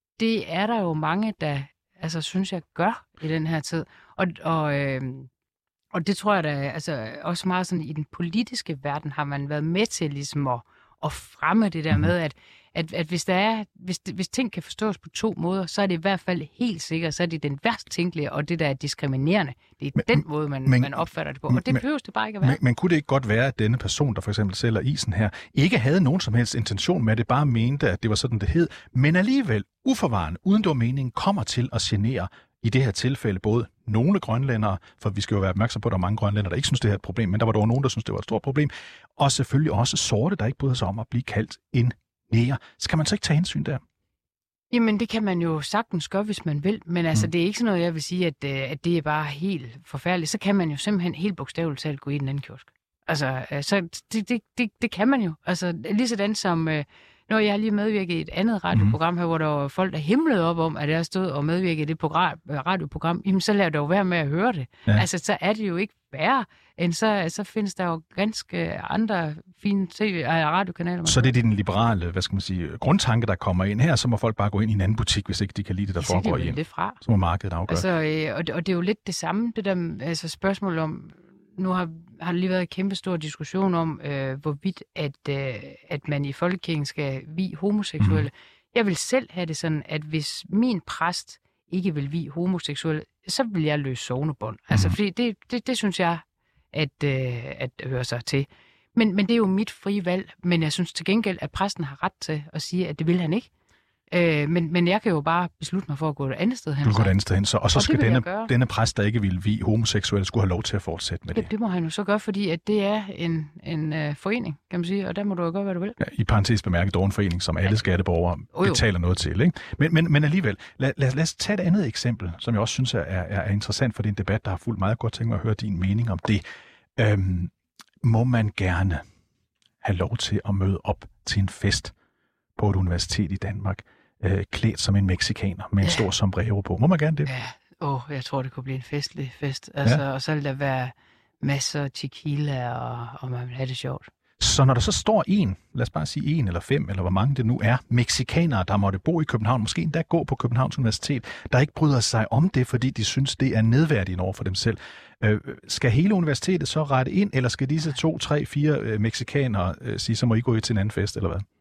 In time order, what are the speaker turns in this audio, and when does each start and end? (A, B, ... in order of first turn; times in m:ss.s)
0:00.2-0:05.3 A
0:05.9-0:22.6 A
0:20.0-0:21.8 B
0:22.4-0:43.8 B
0:44.7-1:11.4 A
1:11.1-1:17.9 B
1:16.0-1:17.0 A
1:17.7-1:43.5 A
1:28.0-1:28.3 B
1:44.1-1:47.2 A
1:46.8-1:51.5 B
1:47.7-1:48.5 A
1:51.3-1:56.0 A
1:56.0-2:06.4 B
1:58.5-1:58.8 A
2:07.0-2:09.0 B
2:09.8-2:11.9 B
2:12.6-2:17.3 B
2:17.3-2:24.1 A
2:24.4-2:41.4 B